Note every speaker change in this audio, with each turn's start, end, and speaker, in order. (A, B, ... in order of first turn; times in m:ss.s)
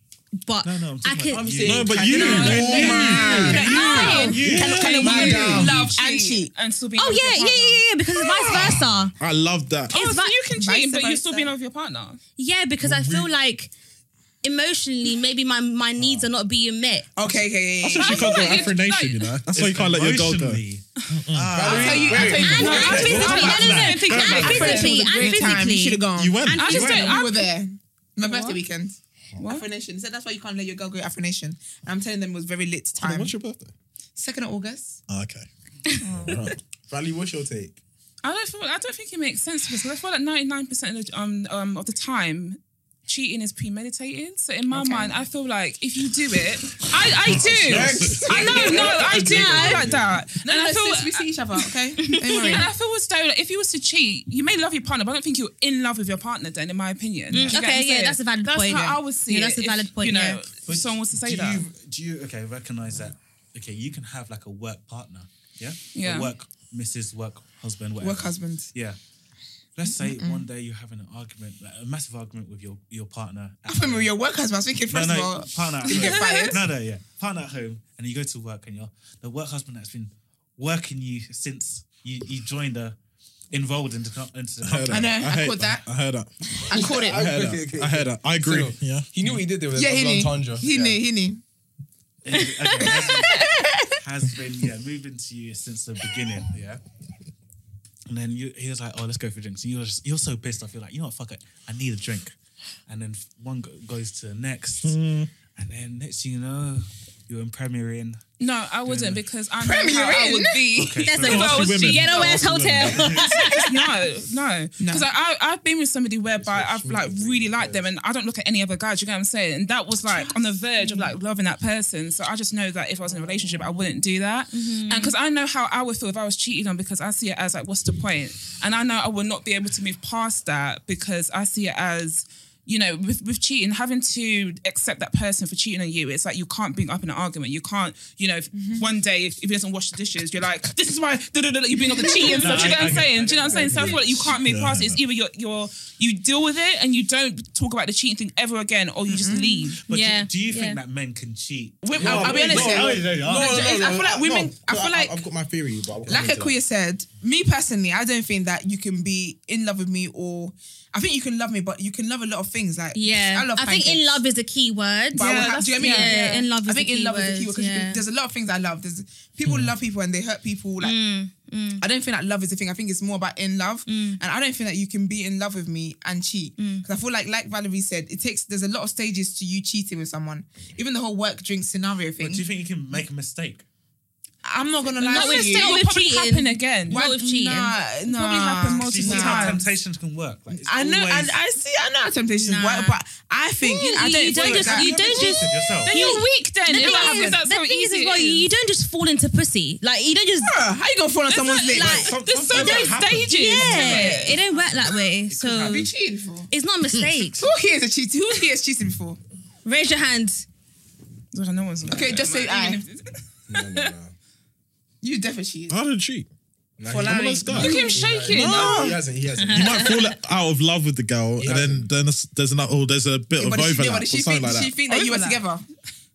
0:00.4-0:01.6 A
0:00.6-0:05.0 B
0:01.3-0:03.6 C
0:01.6-0:03.6 D
0:02.2-0:04.4 E
0:02.2-0:04.4 A
0:02.2-0:06.5 F
0:04.3-0:05.8 D
0:05.0-0:07.9 E
0:05.0-0:05.8 C
0:07.0-0:09.1 A
0:09.2-0:09.9 D
0:09.9-0:12.2 E
0:09.9-0:10.4 A
0:10.5-0:11.5 F
0:12.4-0:13.7 A
0:12.8-0:13.3 D
0:14.4-0:17.1 A
0:17.2-0:18.7 F
0:17.8-0:22.5 D
0:18.0-0:19.4 E
0:19.5-0:24.9 B
0:21.5-0:23.0 C
0:21.6-0:33.3 F
0:21.8-0:25.3 E
0:22.2-0:27.2 A
0:26.2-0:26.8 D
0:26.6-0:27.4 E
0:28.2-0:28.6 E
0:29.4-0:29.7 E
0:33.0-0:33.7 D
0:34.2-0:35.0 F
0:35.1-0:35.5 D
0:36.0-0:36.5 E
0:36.1-0:36.6 D
0:36.9-0:37.8 C
0:38.2-0:51.6 E
0:44.8-0:45.1 F
0:46.8-0:48.9 D
0:47.5-0:50.0 C
0:48.2-0:49.0 F
0:48.8-0:49.9 A
0:50.4-0:52.7 F
0:52.1-0:52.7 A
0:52.2-1:01.6 E
0:57.4-1:00.4 A
0:58.7-0:59.0 F
1:00.7-1:09.0 B
1:05.9-1:06.3 E
1:08.0-1:08.7 F
1:09.8-1:14.1 B
1:09.9-1:10.4 F
1:13.7-1:16.6 F
1:14.9-1:23.0 B
1:15.9-1:16.6 E
1:23.5-1:25.2 B
1:24.6-1:26.3 D
1:24.9-1:25.8 F
1:26.7-1:27.2 F
1:26.7-1:31.0 C
1:26.9-1:29.4 D
1:29.7-1:31.4 F
1:32.2-1:36.8 B
1:32.4-1:33.1 A
1:32.8-1:33.5 F
1:38.1-1:42.3 B
1:42.9-1:45.0 B
1:44.8-1:45.3 D
1:45.5-1:48.2 B
1:48.4-2:29.8 E
1:48.9-1:49.2 B
1:49.6-1:50.7 F
1:50.8-1:51.9 B
1:51.0-1:53.7 A
1:51.2-1:53.3 D
1:52.8-1:53.4 B
1:54.8-1:55.1 F
1:56.4-1:57.8 C
2:00.1-2:01.0 F
2:04.5-2:05.1 A
2:22.3-2:22.6 F
2:22.3-2:24.3 B
2:22.6-2:24.0 C
2:24.3-2:25.0 D
2:29.1-2:29.4 F
2:29.3-2:30.8 A
2:29.9-2:33.8 B
2:31.8-2:35.2 F
2:32.0-2:36.6 C
2:36.1-2:44.2 F
2:43.0-2:48.0 A
2:45.1-2:46.5 E
2:45.2-2:51.0 F
2:49.5-2:49.7 D
2:50.8-2:51.8 A
2:51.8-3:02.4 F
2:53.9-2:54.2 A
2:56.6-2:56.8 A
3:02.2-3:03.6 B
3:04.4-3:05.8 F
3:05.0-3:07.1 E
3:05.0-3:07.7 A
3:06.9-3:09.6 F
3:08.0-3:09.7 E
3:08.7-3:11.4 B
3:10.5-3:15.1 F
3:12.4-3:13.0 A
3:13.6-3:20.6 A
3:13.9-3:18.5 E
3:14.5-3:16.0 B
3:16.8-3:17.3 F
3:20.4-3:22.1 F
3:21.3-3:24.4 E
3:21.5-3:25.9 A
3:21.7-3:25.9 B
3:25.6-3:26.5 F
3:26.5-3:27.4 A
3:26.9-3:27.3 D
3:27.4-3:29.2 F
3:29.6-3:30.5 A
3:31.3-3:33.9 E
3:31.9-3:32.2 C
3:31.9-3:32.8 F
3:33.5-3:34.1 C
3:35.0-3:35.8 F
3:35.7-3:36.3 D
3:36.8-3:39.9 C
3:36.9-3:44.8 D
3:36.9-3:37.9 F
3:37.5-3:39.0 E
3:39.4-3:40.2 A
3:41.4-3:41.9 C
3:43.4-3:45.6 F
3:44.9-3:45.4 E